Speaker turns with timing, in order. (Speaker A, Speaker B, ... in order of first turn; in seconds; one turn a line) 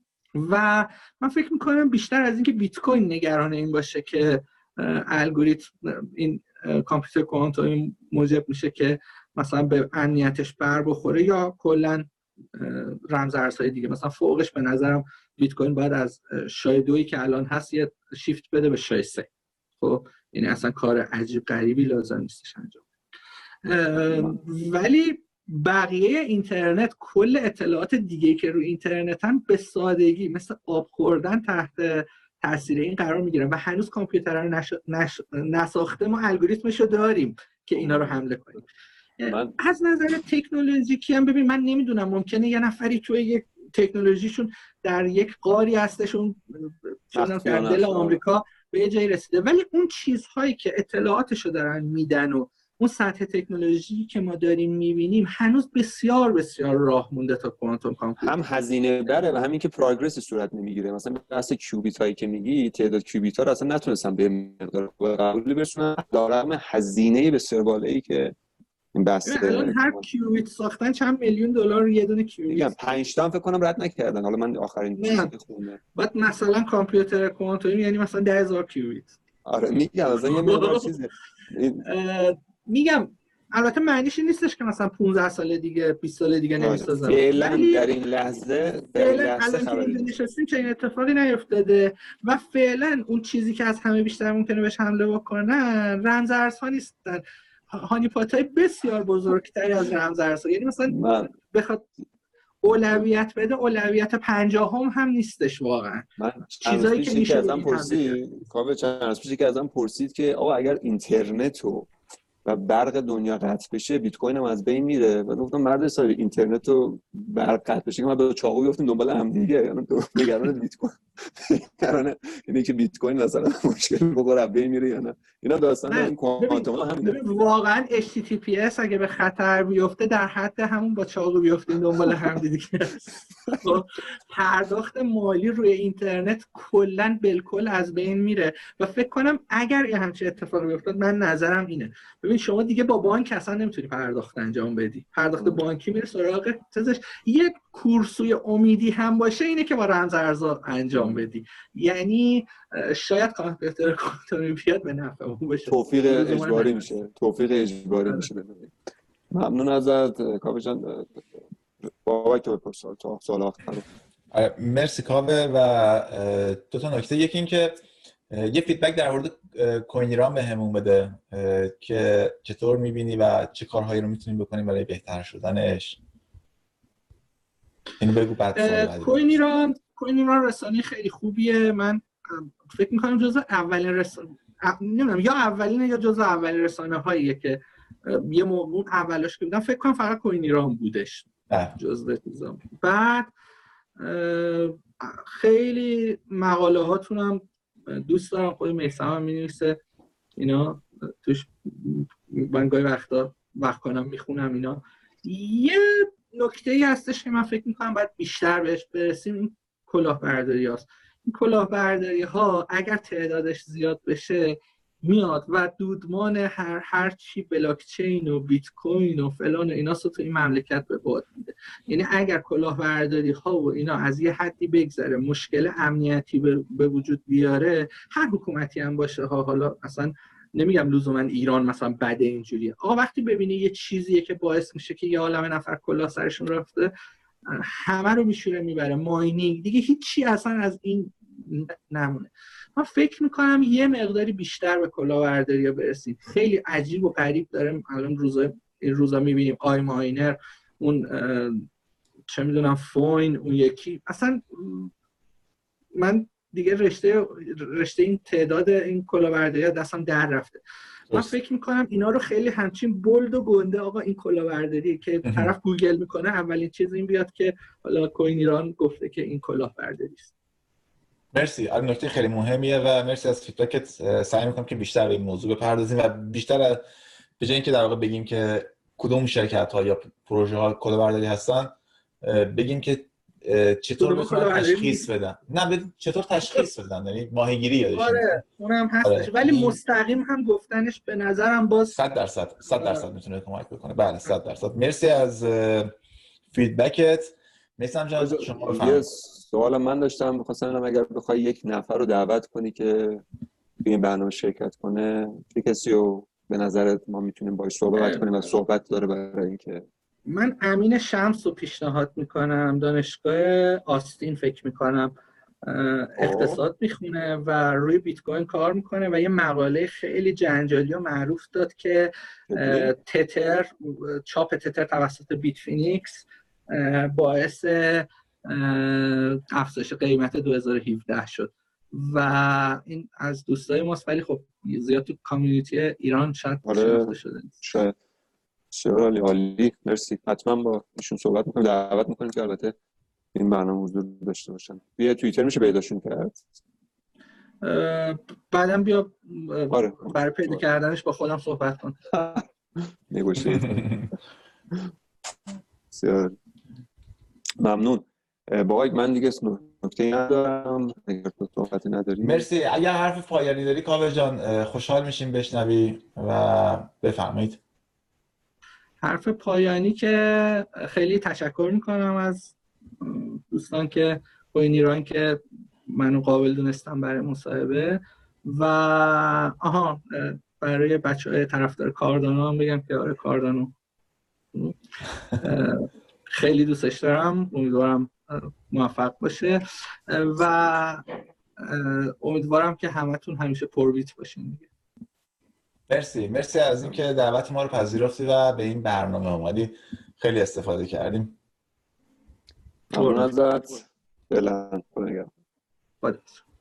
Speaker A: 0.4-19.3
Speaker A: 19.8-22.9
Speaker A: 23.6-38.6
Speaker B: 24.1-24.4
Speaker B: 37.8-38.2
Speaker A: 39.2-58.3
Speaker B: 39.3-39.6
Speaker B: 47.1-48.2
Speaker B: 58.2-68.3
Speaker B: 68.9-70.0
Speaker A: 69.2-72.9
Speaker B: 72.5-75.8
Speaker A: 75.0-75.3
Speaker A: 75.9-79.2
Speaker B: 79.4-81.8
Speaker A: 80.1-81.0
Speaker A: 81.8-87.9
Speaker B: 86.6-90.1
Speaker A: 88.9-101.9
Speaker B: 100.9-101.3
Speaker A: 102.6-108.2
Speaker B: 106.2-111.9
Speaker B: 112.4-127.2
Speaker A: 125.9-133.1
Speaker B: 132.0-132.4
Speaker A: 133.6-156.8
Speaker B: 155.7-158.7
Speaker B: 159.3-161.2
Speaker B: 162.0-163.8
Speaker C: 164.3-176.0
Speaker C: 178.0-179.3
Speaker A: 178.5-193.3
Speaker C: 191.5-191.7
Speaker A: 194.0-199.8
Speaker A: 200.4-236.9
Speaker A: 237.5-251.7
Speaker A: 252.3-254.9
Speaker A: 256.0-270.3
Speaker C: 271.3-276.8
Speaker C: 277.4-288.2
Speaker A: 284.0-285.1
Speaker A: 287.9-292.0
Speaker C: 289.0-289.8
Speaker C: 291.9-295.9
Speaker A: 292.7-293.0
Speaker C: 296.5-299.0
Speaker B: 298.2-303.2
Speaker B: 303.8-309.8
Speaker A: 307.9-308.2
Speaker A: 310.3-315.1
Speaker A: 315.6-337.5
Speaker B: 316.2-316.6
Speaker B: 322.5-322.9
Speaker B: 336.6-337.9
Speaker B: 338.7-342.7
Speaker B: 343.3-346.5
Speaker A: 347.6-352.0
Speaker B: 349.7-350.6
Speaker B: 352.1-354.1
Speaker B: 355.9-356.3
Speaker B: 357.6-362.4
Speaker C: 362.2-367.6
Speaker A: 369.0-383.7
Speaker A: 385.4-391.1
Speaker A: 391.6-394.7
Speaker C: 395.9-401.4
Speaker A: 402.9-403.3
Speaker B: 402.9-405.3
Speaker A: 406.0-406.4